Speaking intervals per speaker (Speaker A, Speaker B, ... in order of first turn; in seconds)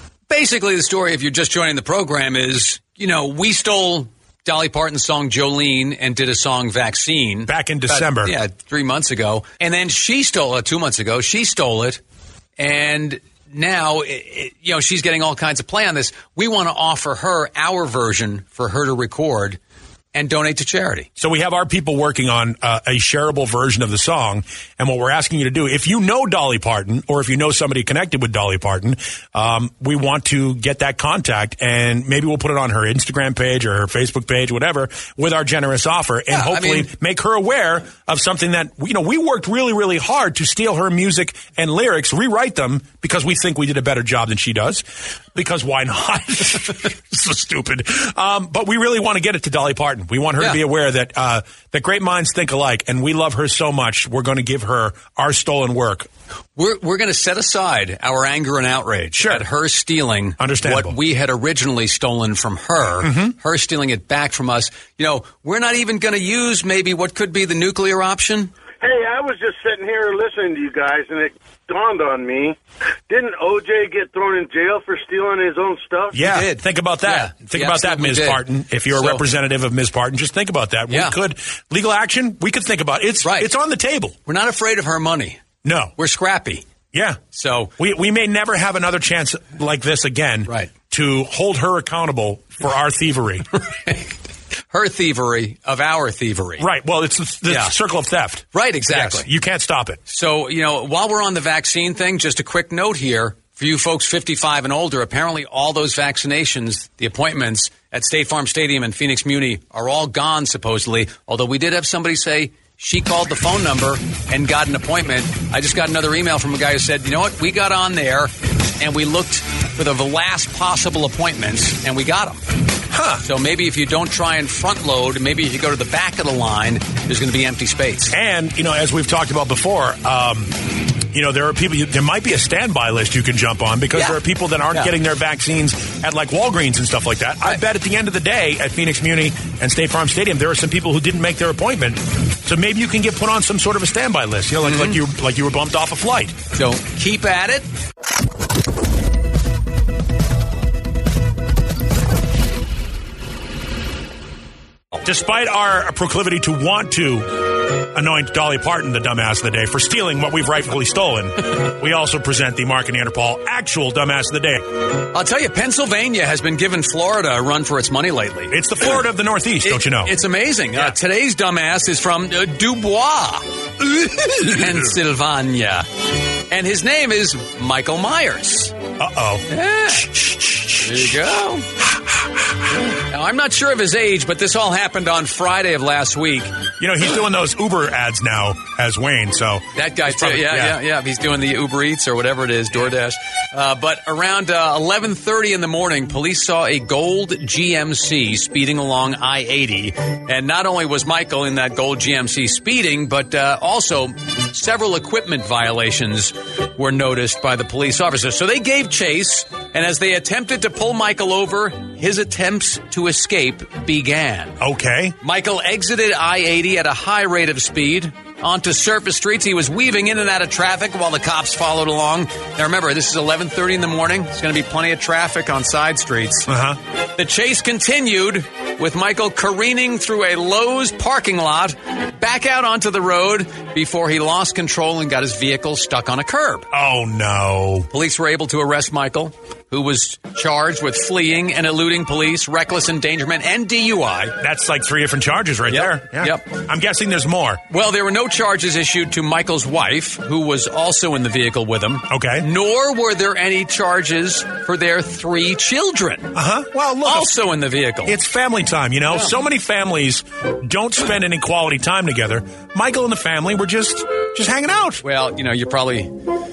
Speaker A: 0.3-12.0, 12.6-19.6, 20.1-21.1, 36.3-36.9, 56.5-68.5, 76.2-79.2, 80.9-81.2, 83.2-83.5, 84.2-85.4, 86.0-86.6, 87.3-87.7, 93.7-94.2, 94.7-96.7, 97.5-97.8, 98.5-99.3, 100.1-122.4, 123.2-128.1, 133.9-134.2, 144.6-145.0, 146.5-147.7, 165.1-168.9, 169.6-175.8, 176.5-178.8, 179.5-180.1, 180.8-181.7, 182.9-186.5, 189.7-214.6, 215.2-226.5, 227.2-236.7, 237.9-244.3, 245.7-246.5, 247.7-256.3, 257.0-258.1, 265.0-266.1
Speaker B: 7.5-8.3, 21.2-56.1, 59.2-59.4, 60.4-61.0, 63.0-63.3, 76.1-84.2, 85.6-85.9, 86.9-87.2, 87.8-93.5, 96.6-100.0, 122.9-123.2, 128.1-146.4, 155.0-164.6, 168.5-170.2, 179.0-182.6, 186.8-190.8, 214.6-215.2, 226.5-226.8, 236.7-237.9, 244.4-247.6, 252.1-252.5, 256.3-257.3, 258.1-265.0
Speaker C: 68.8-72.6, 73.1-76.2